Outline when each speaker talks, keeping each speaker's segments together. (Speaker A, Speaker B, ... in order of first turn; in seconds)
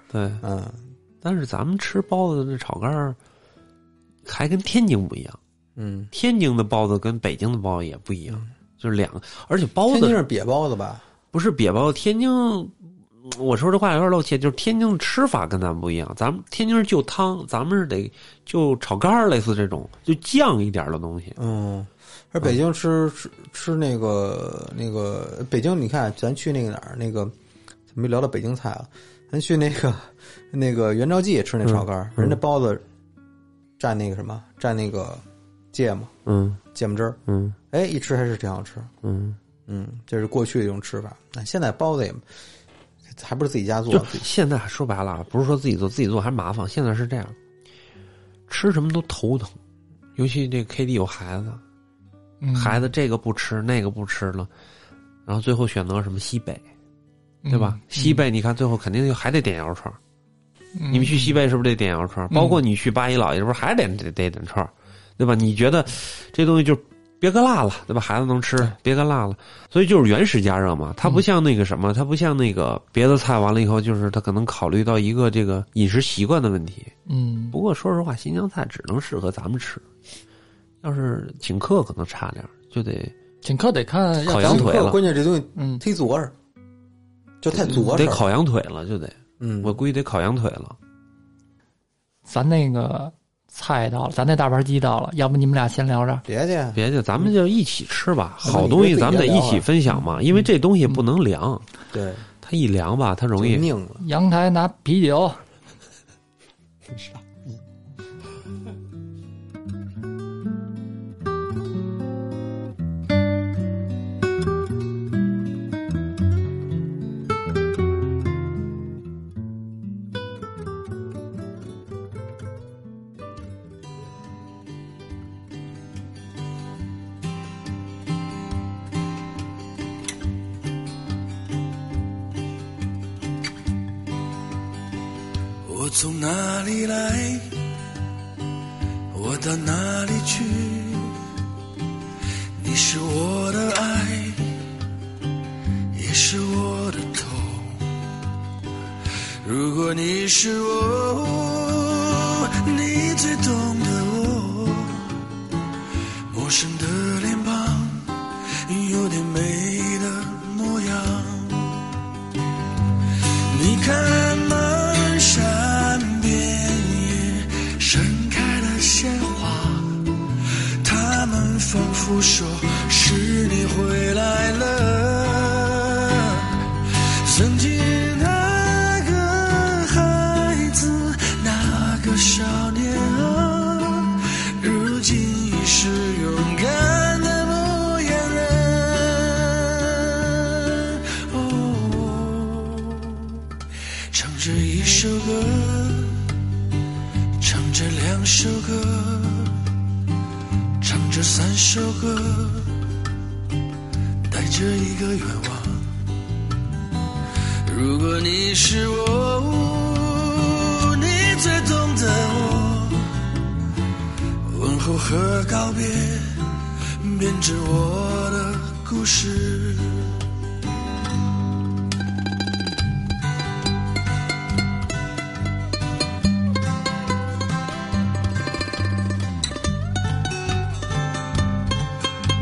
Speaker A: 0.1-0.4, 1.2-3.2, 4.2-5.4, 6.1-10.2, 11.3-21.4, 31.6-32.4, 36.2-36.6, 37.3-37.5, 39.0-39.4, 43.9-47.4, 48.5-49.6, 50.1-51.6, 52.5-54.5, 55.3-56.6, 57.5-60.0, 60.9-76.9, 77.5-79.8, 80.8-83.1, 84.2-85.0, 87.6-90.8, 96.7-101.6, 102.4-103.7
Speaker B: 0.4-0.8, 5.8-6.1, 9.9-11.0, 21.4-27.3, 27.9-32.8, 33.8-36.1, 36.7-37.2, 37.7-38.9, 39.7-42.2, 43.1-44.2, 84.3-86.3, 87.4-88.3, 89.4-89.8, 96.2-96.8, 98.4-99.7, 101.9-102.3, 103.3-104.0, 106.9-107.4
Speaker C: 52.4-52.9, 57.4-58.2, 60.8-61.4, 62.3-62.6, 77.1-77.5, 83.4-84.8, 85.5-85.8, 92.2-96.2, 104.0-105.4
Speaker D: 135.6-137.6, 139.1-141.2, 142.6-144.6, 145.9-147.9, 149.4-155.2, 156.3-161.9, 163.2-193.4, 194.1-196.3, 197.4-199.7, 200.8-202.8, 204.3-206.0, 207.6-213.3, 214.4-220.2